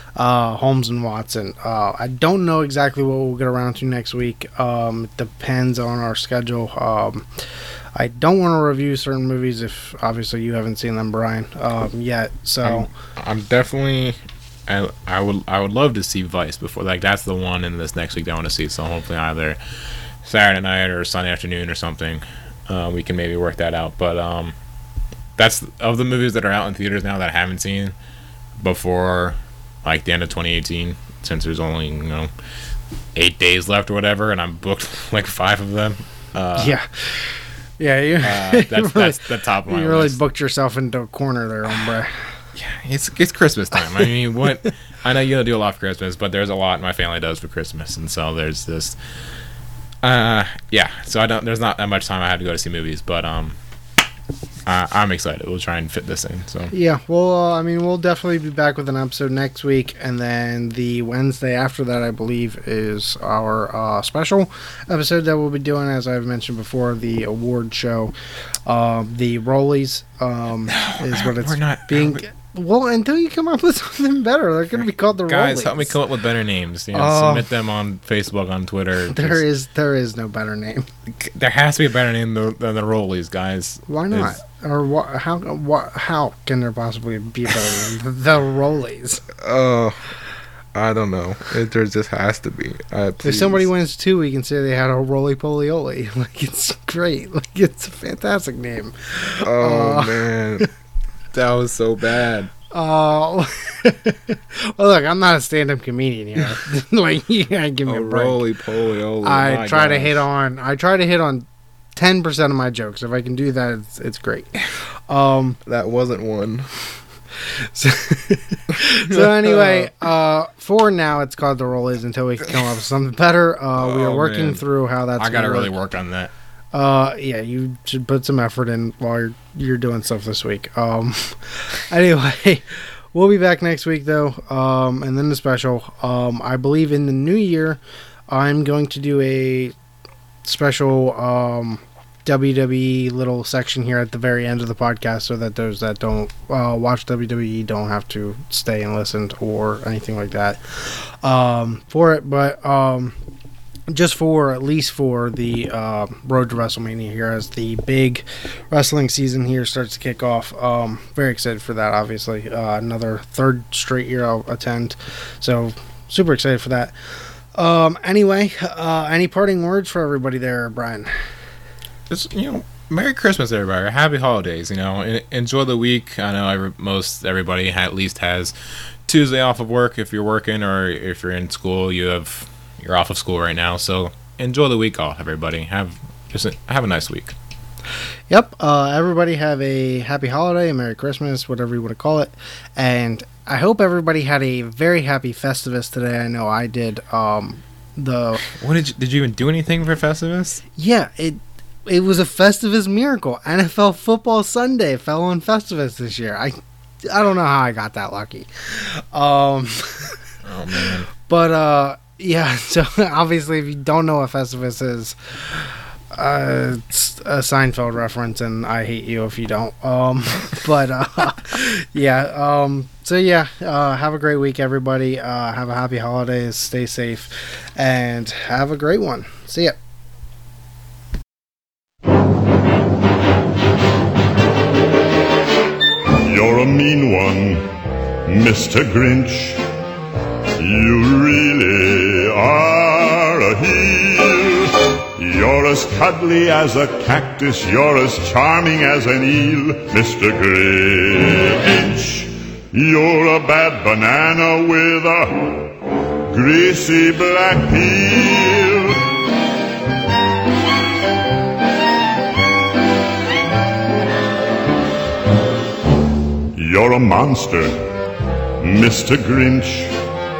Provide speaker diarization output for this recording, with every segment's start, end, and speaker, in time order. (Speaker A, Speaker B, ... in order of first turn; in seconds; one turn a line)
Speaker A: 0.2-7.3
Speaker A: 8.0-12.9
Speaker B: 12.6-19.6
Speaker B: 20.2-24.6
Speaker B: 25.4-27.9
Speaker B: 28.6-32.3
Speaker B: 33.1-36.8
Speaker A: 36.6-42.1
Speaker B: 38.2-40.2
Speaker B: 42.6-49.0
Speaker B: 50.0-53.6
Speaker B: 54.7-56.7
Speaker A: 56.7-68.1
Speaker A: 68.7-76.0
Speaker B: 70.7-72.2
Speaker B: 75.3-79.4
Speaker A: 76.9-77.5
Speaker A: 79.1-80.9
Speaker B: 81.1-84.4
Speaker A: 83.9-89.3
Speaker B: 89.4-90.1
Speaker B: 90.8-93.7
Speaker A: 93.2-100.7
Speaker B: 99.4-100.7
Speaker B: 101.3-102.5
Speaker A: 102.7-108.4
Speaker B: 107.9-110.2
Speaker A: 109.2-114.6
Speaker A: 115.1-115.6
Speaker B: 115.7-116.7
Speaker A: 117.8-125.7
Speaker B: 118.8-119.9
Speaker B: 123.8-124.6
Speaker B: 125.2-126.3
Speaker A: 126.7-139.8
Speaker A: 140.4-153.2
Speaker A: 153.9-166.9
Speaker A: 167.5-171.1
Speaker B: 172.1-178.5
Speaker B: 179.1-187.4
Speaker A: 188.3-198.4
Speaker B: 198.5-200.6
Speaker A: 200.8-210.2
Speaker B: 210.4-211.1
Speaker A: 211.3-229.8
Speaker C: 236.2-237.7
Speaker C: 238.2-239.6
Speaker C: 240.6-259.1
Speaker C: 266.5-267.9
Speaker C: 268.6-269.9